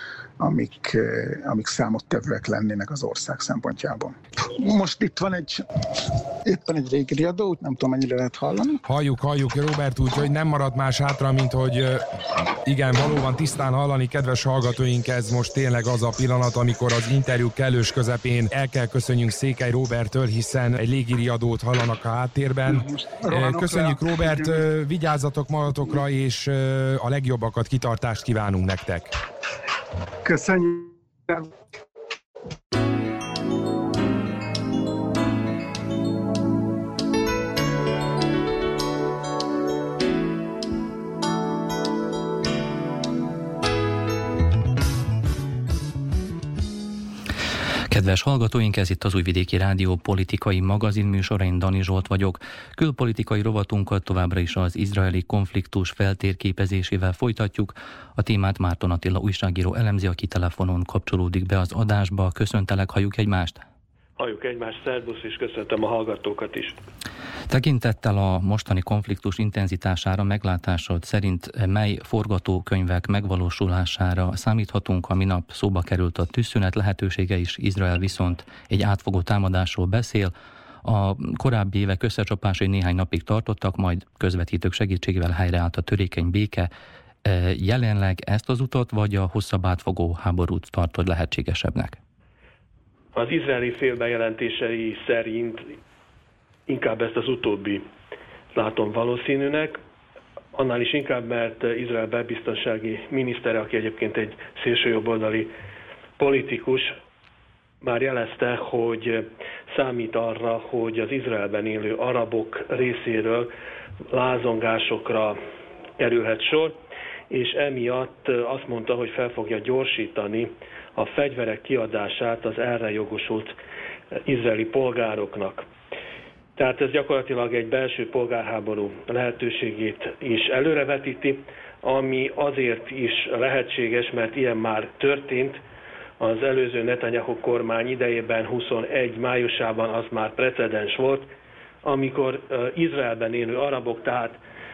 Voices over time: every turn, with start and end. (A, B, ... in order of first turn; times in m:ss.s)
0:00.4-0:05.6 A
0:06.4-0:08.8 A
0:08.8-0:12.0 B
0:12.6-0:29.2 B
0:22.7-0:24.6 A
0:30.2-0:31.5 A
0:47.9-1:03.6 C
1:04.2-1:06.8 D
1:07.5-1:20.3 C
1:20.8-1:26.7 C
1:27.2-1:32.0 C
1:33.1-1:35.8 D
1:36.7-1:37.8 D
1:38.5-1:39.8 D
1:40.6-1:45.5 D
1:46.2-1:46.9 D
1:47.8-1:53.5 D
1:54.1-1:55.4 D
1:56.0-1:56.8 D
1:57.3-2:03.5 D
2:04.2-2:05.6 D
2:06.6-2:15.6 D
2:16.2-2:21.3 D
2:21.8-2:24.4 D